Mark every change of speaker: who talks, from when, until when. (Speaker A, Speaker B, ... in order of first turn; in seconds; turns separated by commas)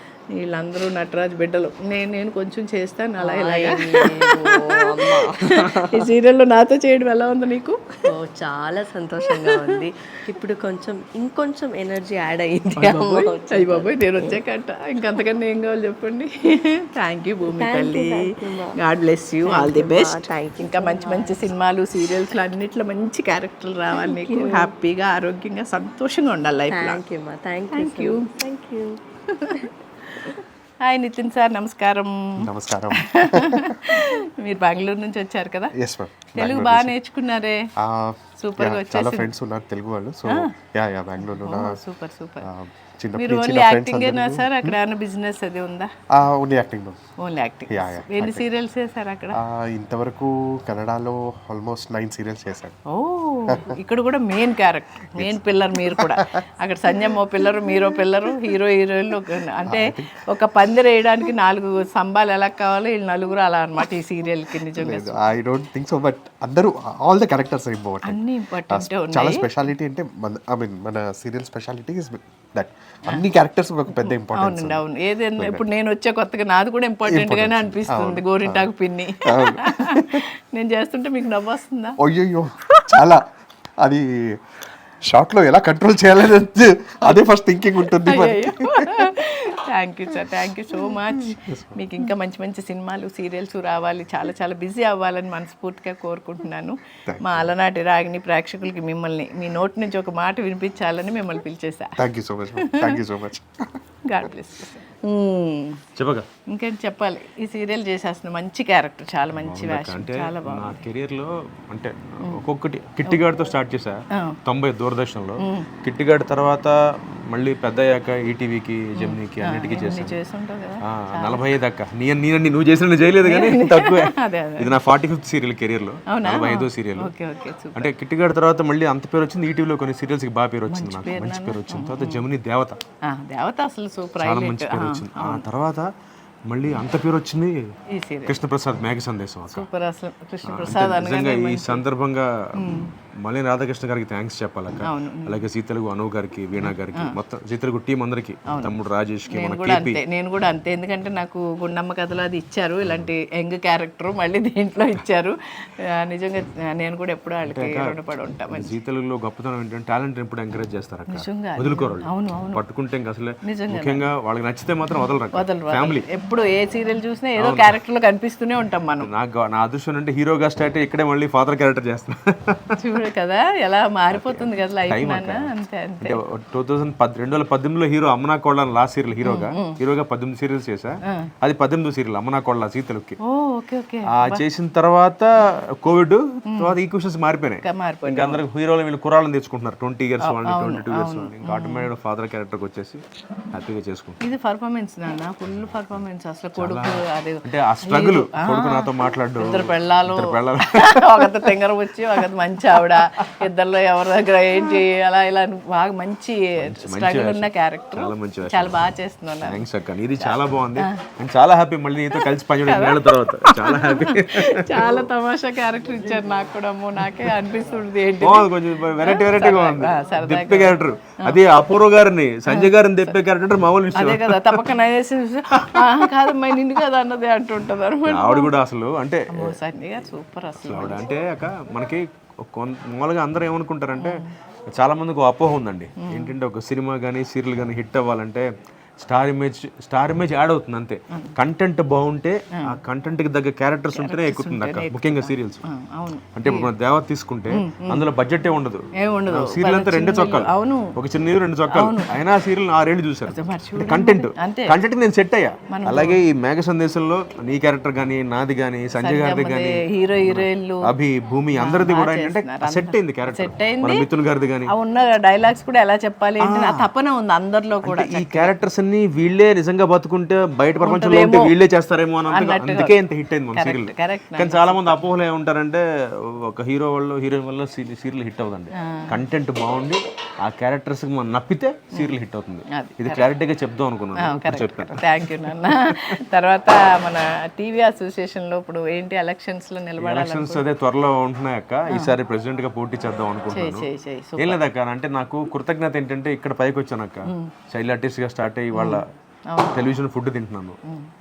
Speaker A: 0.4-7.8, Speaker B: 3.2-5.9, Speaker B: 8.1-14.3, Speaker A: 9.2-9.8, Speaker A: 12.8-27.0, Speaker B: 17.6-18.8, Speaker B: 19.4-21.3, Speaker B: 24.1-24.6, Speaker B: 26.7-29.0, Speaker A: 27.7-28.3, Speaker A: 29.3-32.5, Speaker C: 32.4-33.7, Speaker A: 33.0-35.7, Speaker C: 35.7-36.9, Speaker A: 36.4-37.6, Speaker C: 37.8-41.8, Speaker A: 38.4-39.3, Speaker A: 41.3-42.5, Speaker C: 42.4-44.7, Speaker A: 43.1-45.9, Speaker C: 46.1-47.0, Speaker A: 47.2-49.4, Speaker C: 47.7-48.4, Speaker C: 49.3-52.8, Speaker A: 52.9-65.2, Speaker C: 55.2-56.2, Speaker C: 59.7-60.1, Speaker C: 64.7-74.8, Speaker A: 68.0-69.5, Speaker A: 74.0-82.0, Speaker C: 75.4-75.6, Speaker C: 77.1-78.7, Speaker C: 79.2-80.2, Speaker C: 82.0-83.2, Speaker A: 82.7-83.0, Speaker C: 83.8-84.4, Speaker C: 85.0-89.1, Speaker A: 88.0-102.0, Speaker C: 97.1-97.5, Speaker C: 102.0-103.8, Speaker A: 102.6-103.0, Speaker A: 104.1-105.8, Speaker D: 106.0-106.3, Speaker A: 106.5-110.8, Speaker D: 109.3-120.2, Speaker A: 114.1-114.4, Speaker A: 115.4-115.7, Speaker A: 119.0-121.4, Speaker D: 120.8-127.1, Speaker A: 123.2-124.7, Speaker A: 126.1-127.9, Speaker D: 127.7-132.8, Speaker A: 130.7-132.2, Speaker A: 133.1-135.4, Speaker D: 134.2-135.9, Speaker D: 136.5-137.7, Speaker A: 137.9-138.4, Speaker D: 138.2-139.7, Speaker A: 139.5-141.8, Speaker D: 140.4-150.0, Speaker A: 142.6-142.9, Speaker A: 144.8-145.4, Speaker A: 148.5-148.7, Speaker A: 149.3-155.3, Speaker D: 152.8-153.1, Speaker A: 155.9-158.7, Speaker D: 157.4-166.1, Speaker A: 161.1-162.6, Speaker A: 163.4-164.1, Speaker A: 165.3-169.1, Speaker D: 167.4-167.8, Speaker D: 169.0-172.8, Speaker A: 172.8-176.2, Speaker D: 174.1-183.2, Speaker A: 179.2-179.8, Speaker A: 183.2-184.4, Speaker D: 184.1-194.2, Speaker A: 186.5-186.8, Speaker A: 187.6-188.4, Speaker A: 190.2-191.9, Speaker A: 194.2-209.6, Speaker D: 195.6-196.0, Speaker D: 196.5-201.5, Speaker D: 206.6-214.9, Speaker A: 210.2-211.0, Speaker A: 212.6-221.4, Speaker D: 218.2-224.7, Speaker A: 222.5-223.2, Speaker A: 223.9-228.5, Speaker D: 225.5-226.1, Speaker D: 228.1-229.6, Speaker A: 229.3-231.1, Speaker D: 230.6-238.5, Speaker A: 234.0-234.3, Speaker A: 236.0-236.3, Speaker D: 239.0-245.6, Speaker A: 243.9-246.7, Speaker D: 246.3-264.7, Speaker A: 247.5-248.0, Speaker A: 249.0-250.9, Speaker A: 251.7-252.1, Speaker A: 253.3-254.8, Speaker A: 255.7-256.2, Speaker A: 258.9-260.9, Speaker A: 261.6-264.1, Speaker A: 264.6-268.5, Speaker D: 266.4-266.9, Speaker D: 267.8-286.1, Speaker A: 270.8-271.5, Speaker A: 272.3-273.0, Speaker A: 273.5-275.1, Speaker A: 278.8-279.2, Speaker A: 282.7-283.3, Speaker A: 284.2-290.6, Speaker D: 290.0-299.1, Speaker A: 293.5-294.6, Speaker A: 297.2-297.5, Speaker A: 298.7-299.9, Speaker D: 299.7-300.8